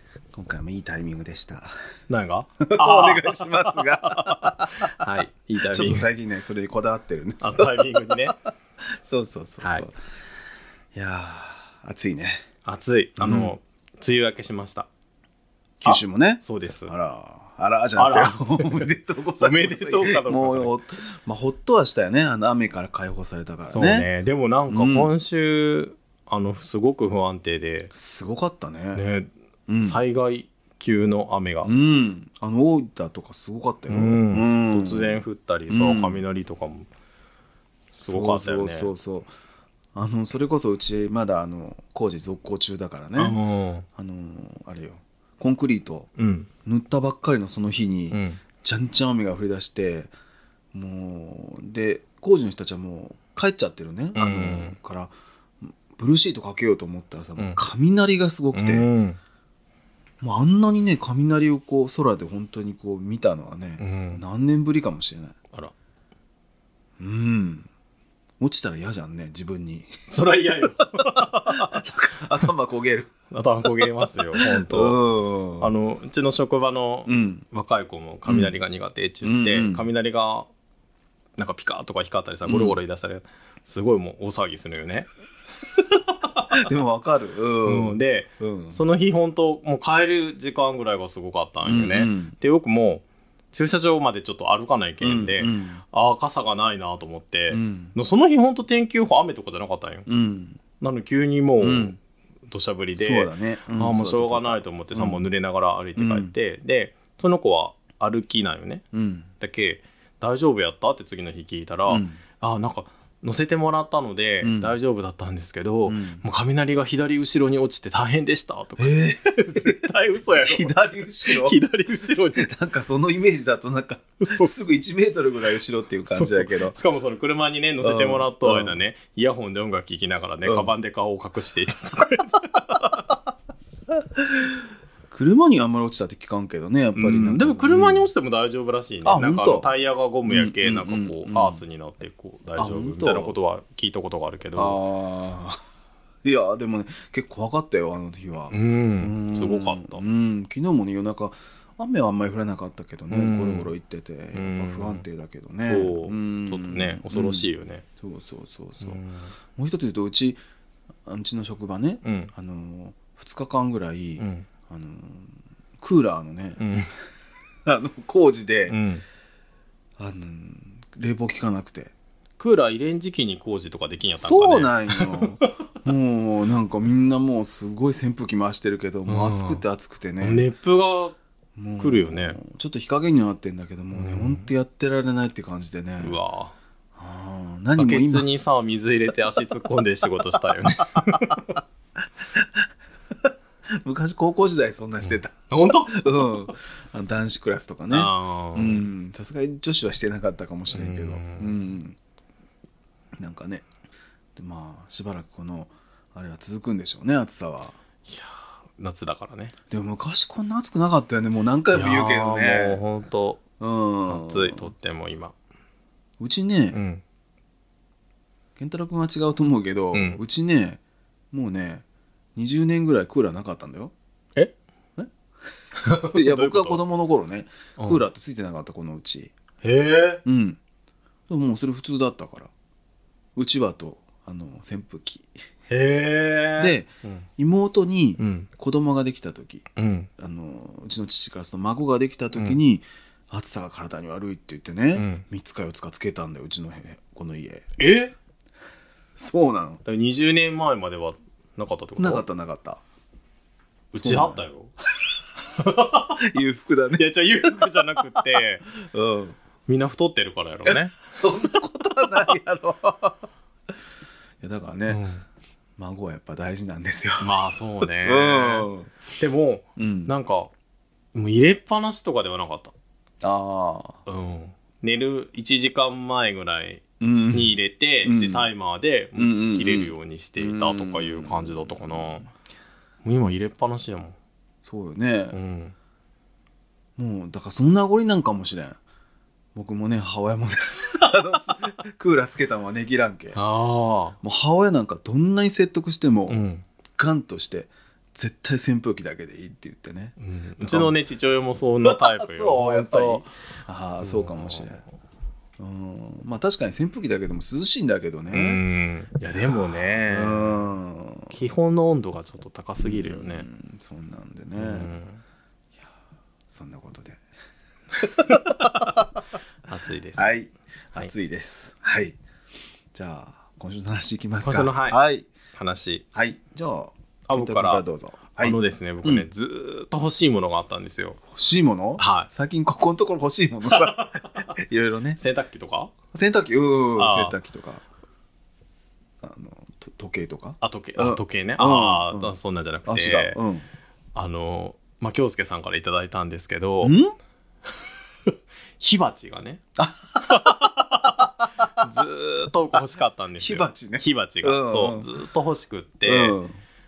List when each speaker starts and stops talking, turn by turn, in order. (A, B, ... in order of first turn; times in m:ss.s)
0:00.3-0:01.7 A
0:02.1-0:06.1 B
0:02.6-0:08.2 A
0:07.4-0:08.4 B
0:09.0-0:09.9 A
0:09.6-0:09.9 B
0:10.9-0:12.4 A
0:12.6-0:14.9 B
0:13.2-0:13.6 A
0:15.8-0:24.1 A
0:15.8-0:16.9 B
0:18.0-0:20.8 B
0:23.7-0:27.9 B
0:24.7-0:25.1 A
0:27.9-0:29.0 A
0:28.9-0:29.3 B
0:29.7-0:30.0 A
0:29.8-0:31.7 B
0:31.6-0:36.2 A
0:33.9-0:36.9 B
0:37.9-0:39.3 A
0:38.0-0:38.9 B
0:39.9-0:43.4 A
0:43.2-0:43.8 B
0:44.0-0:46.1 A
0:46.2-0:46.5 B
0:46.6-0:50.1 A
0:48.1-0:48.4 B
0:50.7-0:58.9 A
0:54.2-0:54.8 B
0:57.4-0:57.6 B
0:58.5-0:59.2 B
1:00.2-1:05.4 A
1:03.8-1:04.2 B
1:07.0-1:07.7 A
1:08.4-1:09.9 A
1:10.1-1:11.8 B
1:11.0-1:13.1 A
1:13.3-1:15.0 B
1:14.4-1:15.7 A
1:15.6-1:20.5 B
1:17.1-1:17.4 A
1:18.3-1:18.6 A
1:19.2-1:19.8 A
1:21.4-1:25.1 B
1:22.5-1:22.8 A
1:25.7-1:26.7 B
1:26.5-1:28.8 A
1:27.6-1:40.1 B
1:31.6-1:32.3 A
1:35.0-1:35.8 A
1:37.5-1:37.9 A
1:40.1-1:40.6 A
1:40.8-1:42.0 B
1:41.6-1:42.0 A
1:42.5-1:48.8 B
1:43.0-1:45.3 A
1:46.0-1:46.3 A
1:48.9-1:49.3 A
1:49.4-2:02.5 B
1:51.9-1:52.2 A
1:54.4-1:54.7 A
1:55.9-1:56.2 A
1:58.8-2:01.6 A
2:02.4-2:06.8 A
2:04.2-2:04.6 B
2:06.1-2:13.0 B
2:07.8-2:08.8 A
2:10.4-2:10.7 A
2:14.0-2:14.6 A
2:15.1-2:18.1 A
2:17.0-2:24.8 B
2:19.0-2:19.7 A
2:20.3-2:21.6 A
2:22.6-2:23.4 A
2:24.6-2:25.6 A
2:26.2-2:37.5 A
2:28.5-2:30.0 B
2:33.1-2:33.7 B
2:34.3-2:35.1 B
2:35.6-2:37.8 B
2:38.0-2:39.0 A
2:38.8-2:39.3 B
2:39.6-2:40.4 A
2:41.1-2:46.6 A
2:42.0-2:42.3 B
2:44.2-2:44.5 B
2:46.6-2:46.9 B
2:47.6-2:48.8 A
2:48.7-2:49.0 B
2:50.0-2:51.9 A
2:52.4-2:55.5 B
2:54.1-3:00.4 A
2:59.1-2:59.6 B
3:00.2-3:01.2 B
3:01.6-3:06.2 A
3:01.8-3:02.4 B
3:03.9-3:04.5 B
3:06.0-3:06.6 B
3:07.0-3:08.3 A
3:07.8-3:11.6 B
3:10.9-3:11.4 A
3:12.2-3:12.7 A
3:13.2-3:22.0 A
3:15.0-3:16.1 B
3:17.9-3:18.9 B
3:20.7-3:21.5 B
3:23.2-3:23.7 A
3:24.4-3:27.8 A
3:28.1-3:29.5 B
3:29.7-3:32.8 A
3:31.7-3:33.4 B
3:33.6-3:34.7 A
3:34.1-3:35.3 B
3:36.2-3:36.8 A
3:36.7-3:37.0 B
3:38.6-3:40.8 A
3:39.9-3:40.2 B
3:41.3-3:41.8 A
3:42.4-3:43.9 A
3:45.8-3:46.8 B
3:45.9-3:49.3 A
3:47.8-3:48.0 B
3:49.6-3:50.2 B
3:50.2-3:50.6 A
3:51.3-3:52.5 A
3:53.4-3:55.3 A
3:55.7-3:57.2 B
3:56.6-4:07.6 A
3:58.2-3:58.5 B
3:59.8-4:00.1 B
4:04.9-4:05.2 B
4:07.8-4:08.1 B
4:09.2-4:09.8 A
4:09.8-4:12.2 B
4:12.0-4:12.8 A
4:13.9-4:14.7 B
4:13.9-4:14.4 A
4:15.5-4:16.2 B
4:16.1-4:17.7 A
4:17.0-4:18.6 B
4:18.3-4:19.4 A
4:19.7-4:21.0 B
4:20.7-4:23.2 A
4:24.4-4:25.0 A
4:24.9-4:25.2 B
4:25.8-4:27.3 A
4:27.2-4:30.5 B
4:28.0-4:28.9 A
4:29.8-4:30.1 A
4:31.1-4:32.7 B
4:33.2-4:34.0 A
4:34.1-4:42.3 B
4:37.0-4:37.5 A
4:38.0-4:38.5 A
4:39.2-4:42.1 A
4:43.0-4:44.1 B
4:44.6-4:45.4 A
4:45.3-4:45.7 B
4:47.0-4:48.8 A
4:49.6-4:53.4 A
4:53.4-4:54.2 B
4:54.2-4:56.4 A
4:56.3-4:56.6 B
4:56.9-5:01.0 A
5:00.2-5:03.2 B
5:01.8-5:04.8 A
5:04.0-5:04.9 B
5:05.6-5:08.6 A
5:08.3-5:10.7 B
5:09.3-5:11.3 A
5:11.3-5:13.5 B
5:12.8-5:14.9 A
5:14.6-5:15.2 B
5:16.5-5:17.2 A
5:18.0-5:18.9 B
5:18.0-5:19.1 A
5:19.7-5:20.3 B
5:20.2-5:22.2 A
5:22.9-5:25.2 A
5:24.4-5:25.0 B
5:25.6-5:26.0 B
5:26.1-5:29.3 A
5:27.3-5:27.8 B
5:28.4-5:31.2 B
5:31.3-5:35.2 A
5:32.0-5:32.3 B
5:33.7-5:34.5 B
5:35.2-5:35.9 B
5:36.1-5:37.8 A
5:37.0-5:37.4 B
5:39.2-5:42.4 A
5:40.6-5:43.4 B
5:42.9-5:43.7 A
5:44.1-5:47.0 B
5:46.8-5:47.1 A
5:48.8-5:49.6 B
5:49.8-5:52.0 A
5:50.2-5:56.4 B
5:53.4-5:55.1 A
5:56.0-5:56.6 A